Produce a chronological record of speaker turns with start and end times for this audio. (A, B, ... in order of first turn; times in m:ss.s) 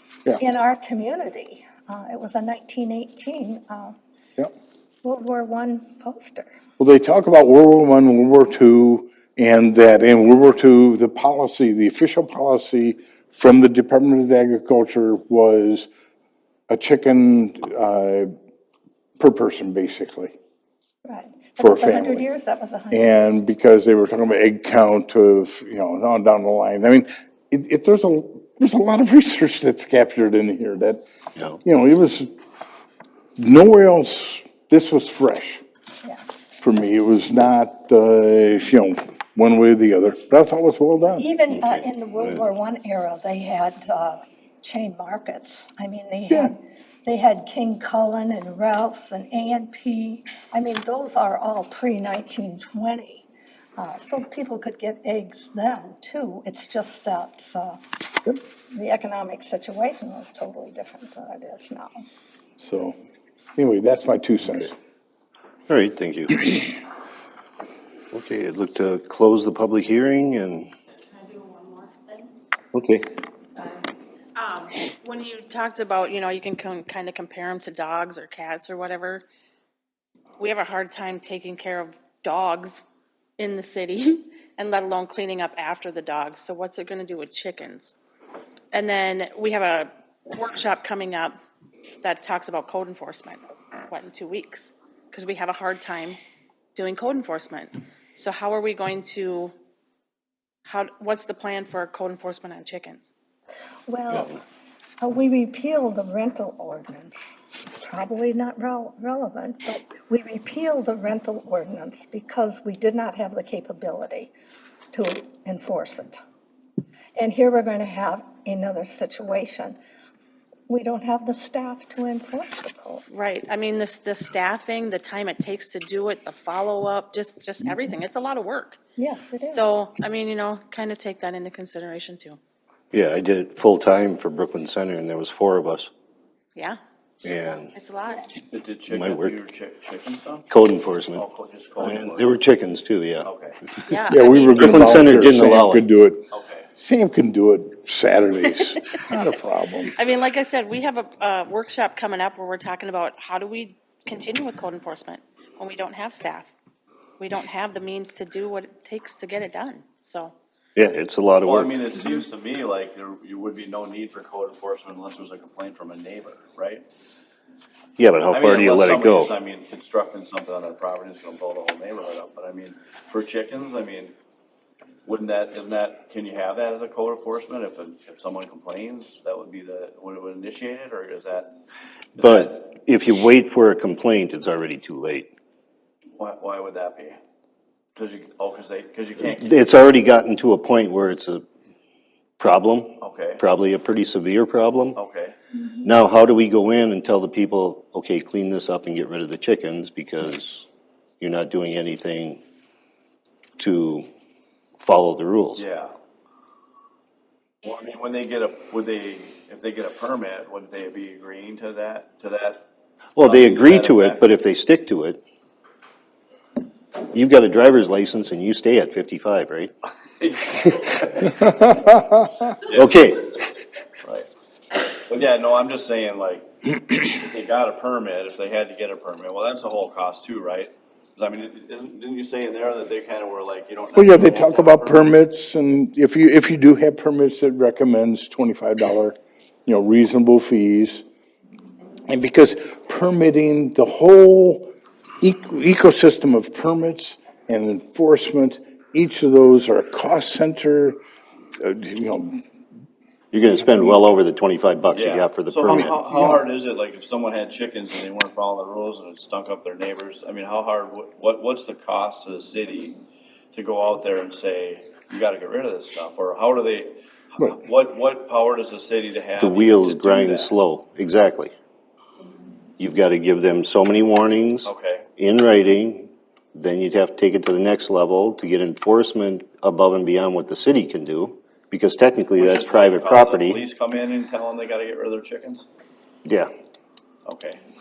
0:00.4-0:04.0 A
0:05.0-0:06.5 A
0:06.8-0:15.9 B
0:16.7-0:18.3 B
0:19.2-0:20.3 B
0:21.0-0:23.4 A
0:21.6-0:22.2 B
0:22.9-0:31.0 B
0:31.6-0:32.3 B
0:33.4-0:35.6 B
0:36.6-0:41.2 B
0:41.1-0:53.2 A
0:41.5-0:42.4 C
0:53.8-0:57.8 A
0:58.7-1:02.0 A
1:02.6-1:03.0 B
1:03.6-1:04.7 B
1:05.7-1:06.7 C
1:08.1-1:10.7 C
1:11.1-1:12.3 D
1:12.7-1:13.1 C
1:13.5-1:19.2 D
1:20.4-1:22.8 D
1:23.4-1:27.9 D
1:28.7-1:31.4 D
1:32.0-1:36.2 D
1:36.7-1:39.5 D
1:40.6-1:43.1 D
1:43.9-1:44.4 A
1:45.0-1:47.2 A
1:47.8-1:54.3 A
1:54.9-1:56.2 A
1:57.2-1:59.8 A
2:00.7-2:03.2 A
2:03.1-2:08.8 D
2:09.0-2:09.6 A
2:09.5-2:12.4 D
2:12.9-2:15.9 C
2:17.2-2:17.7 C
2:17.7-2:18.3 D
2:18.5-2:20.4 E
2:18.9-2:19.3 C
2:20.5-2:21.2 C
2:21.1-2:22.4 E
2:21.8-2:23.3 C
2:23.2-2:23.6 E
2:23.9-2:24.7 D
2:24.1-2:29.9 B
2:24.5-2:25.8 C
2:26.3-2:26.7 E
2:29.9-2:36.5 D
2:37.2-2:40.3 D
2:40.8-2:41.7 C
2:41.4-2:46.8 E
2:48.0-2:49.3 C
2:48.3-2:54.1 E
2:55.0-3:01.6 E
3:02.2-3:02.5 E
3:02.2-3:05.3 C
3:06.2-3:07.2 E
3:07.9-3:09.6 E
3:09.3-3:11.4 C
3:12.4-3:15.0 C
3:13.0-3:13.4 E
3:14.9-3:15.3 E
3:15.8-3:20.7 C
3:21.2-3:22.4 C
3:23.6-3:24.0 C
3:24.8-3:25.6 C
3:25.6-3:25.9 E
3:27.6-3:32.6 E
3:33.2-3:35.2 C
3:33.2-3:34.2 E
3:37.1-3:39.7 C
3:40.2-3:41.4 E
3:41.7-3:42.3 B
3:42.7-3:43.0 E
3:42.7-3:43.3 C
3:44.0-3:55.2 E
3:53.9-4:01.0 B
4:02.1-4:11.0 B
4:11.6-4:12.4 B
4:13.3-4:16.0 C
4:14.9-4:23.0 E
4:15.7-4:16.4 B
4:23.5-4:30.5 E
4:29.4-4:31.5 C
4:32.8-4:43.6 C
4:34.6-4:35.0 E
4:42.4-4:45.6 E
4:46.2-4:46.5 C
4:47.2-4:47.6 E